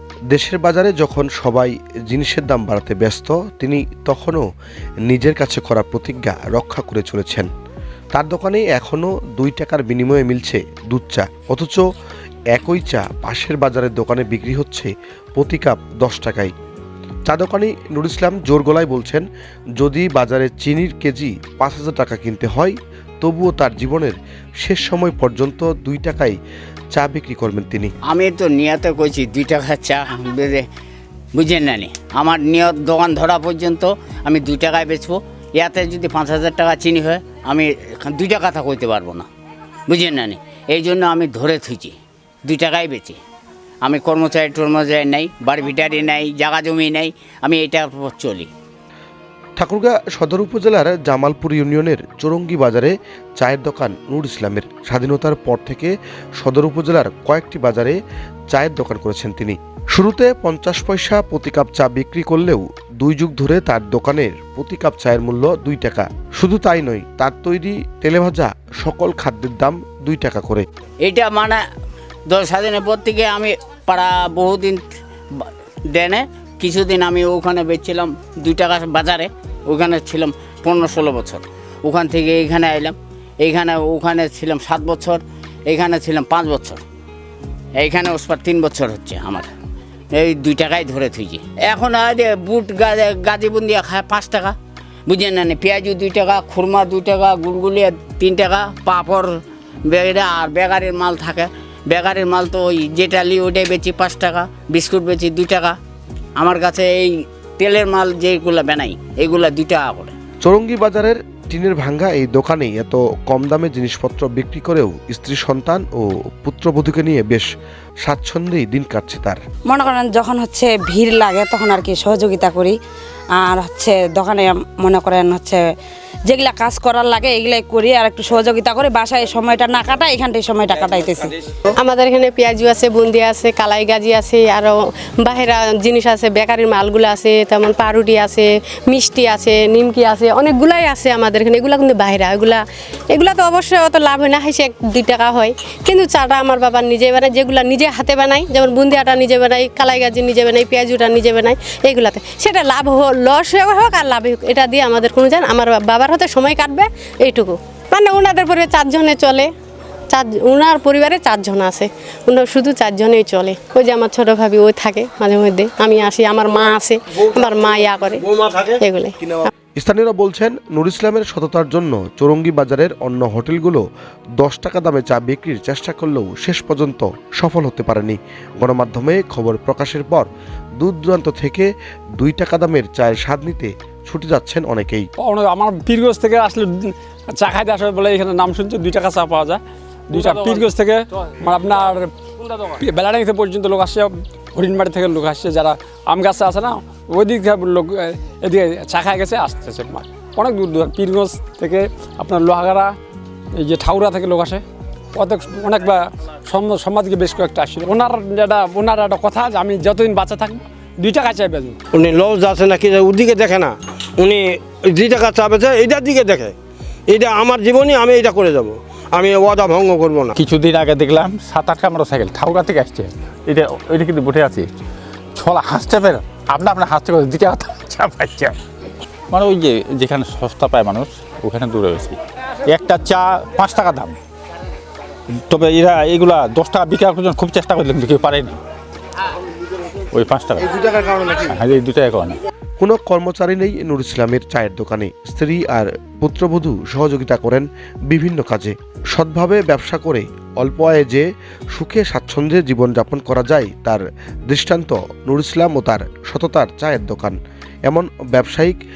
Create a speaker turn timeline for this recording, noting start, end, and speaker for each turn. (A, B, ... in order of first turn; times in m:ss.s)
0:00.3-0:04.4 A
0:05.1-0:07.5 A
0:08.1-0:11.8 A
0:12.5-0:16.5 A
0:17.2-0:19.2 A
0:19.8-0:26.4 A
0:26.9-0:27.9 A
0:28.1-0:30.7 B
0:31.3-0:39.3 B
0:39.9-0:43.2 B
0:43.8-0:48.5 B
0:49.6-0:58.0 A
0:58.5-1:10.6 A
1:11.0-1:11.6 B
1:12.3-1:14.8 B
1:15.3-1:26.8 B
1:27.8-1:29.5 B
1:30.1-1:34.6 B
1:35.1-1:39.3 B
1:39.9-1:45.8 B
1:46.4-1:50.1 B
1:50.4-1:57.5 A
1:58.0-1:59.4 A
1:59.7-2:02.7 C
2:03.4-2:05.6 C
2:06.3-2:11.3 C
2:11.8-2:39.5 D
2:40.1-2:48.2 D
2:48.3-2:48.6 E
2:48.8-2:49.1 D
2:49.8-2:53.8 A
2:54.4-3:00.3 A
3:00.8-3:05.0 A
3:05.2-3:12.1 F
3:12.7-3:22.9 F
3:23.6-3:24.6 F
3:25.1-3:31.8 F
3:32.0-3:36.6 E
3:37.1-3:40.3 E
3:40.4-3:44.7 G
3:45.4-3:48.6 G
3:49.3-3:54.2 G
3:55.5-3:58.6 G
4:00.1-4:00.8 G
4:00.6-4:01.4 E
4:01.4-4:02.4 G
4:02.8-4:17.4 A
4:17.9-4:18.8 A